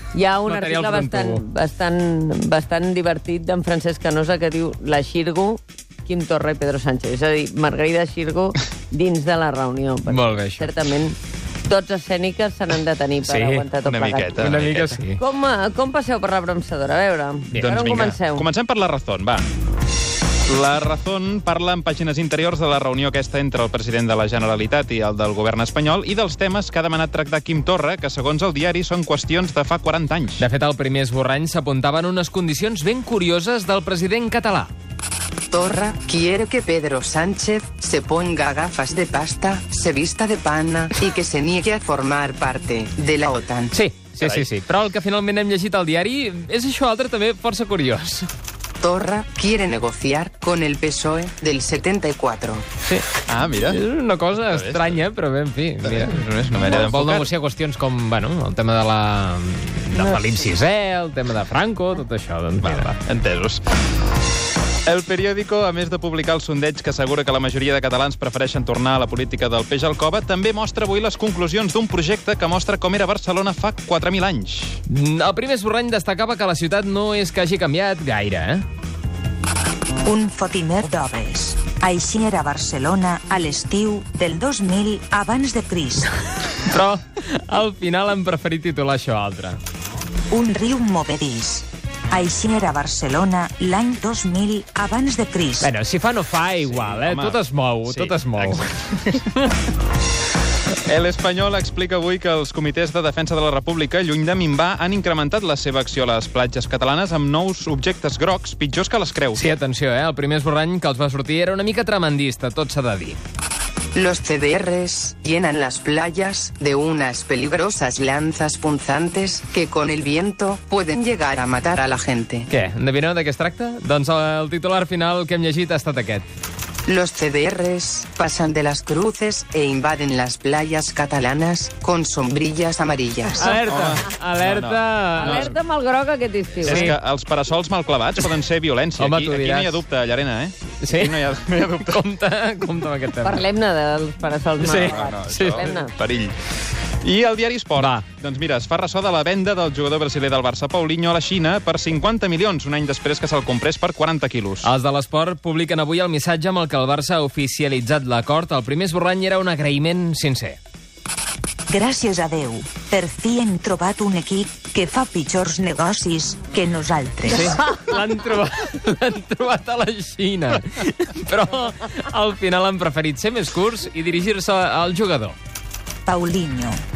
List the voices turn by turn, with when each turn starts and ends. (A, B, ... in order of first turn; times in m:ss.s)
0:00.1-0:14.6 A
0:00.4-0:01.4 B
0:10.0-0:10.7 B
0:13.2-0:13.7 B
0:13.9-0:14.9 C
0:14.4-0:15.2 B
0:15.2-0:18.5 A
0:17.6-0:19.5 C
0:20.5-0:30.5 C
0:30.4-0:34.7 B
0:35.5-0:43.7 D
0:43.7-0:48.3 B
0:48.8-0:52.7 D
0:53.3-0:53.8 C
0:53.6-1:03.0 B
0:54.4-0:55.0 C
0:55.8-0:57.3 C
1:02.6-1:03.6 C
1:04.9-1:14.8 C
1:14.9-1:18.6 B
1:20.0-1:26.1 E
1:26.6-1:29.6 B
1:30.3-1:35.7 E
1:35.6-1:39.3 B
1:36.6-1:38.8 C
1:40.8-1:49.4 C
1:49.3-1:53.2 B
1:53.9-2:02.5 D
2:02.5-2:06.2 B
2:06.9-2:13.5 D
2:13.3-2:15.6 B
2:13.7-2:15.4 C
2:15.2-2:16.9 A
2:16.6-2:17.0 B
2:16.7-2:22.0 C
2:19.0-2:19.8 B
2:20.8-2:23.4 B
2:23.2-2:25.9 A
2:24.6-2:25.7 B
2:24.9-2:26.4 C
2:27.0-2:34.7 C
2:27.8-2:28.0 B
2:34.6-2:40.6 B
2:41.7-2:47.6 E
2:47.3-2:55.4 B
2:56.0-2:56.8 E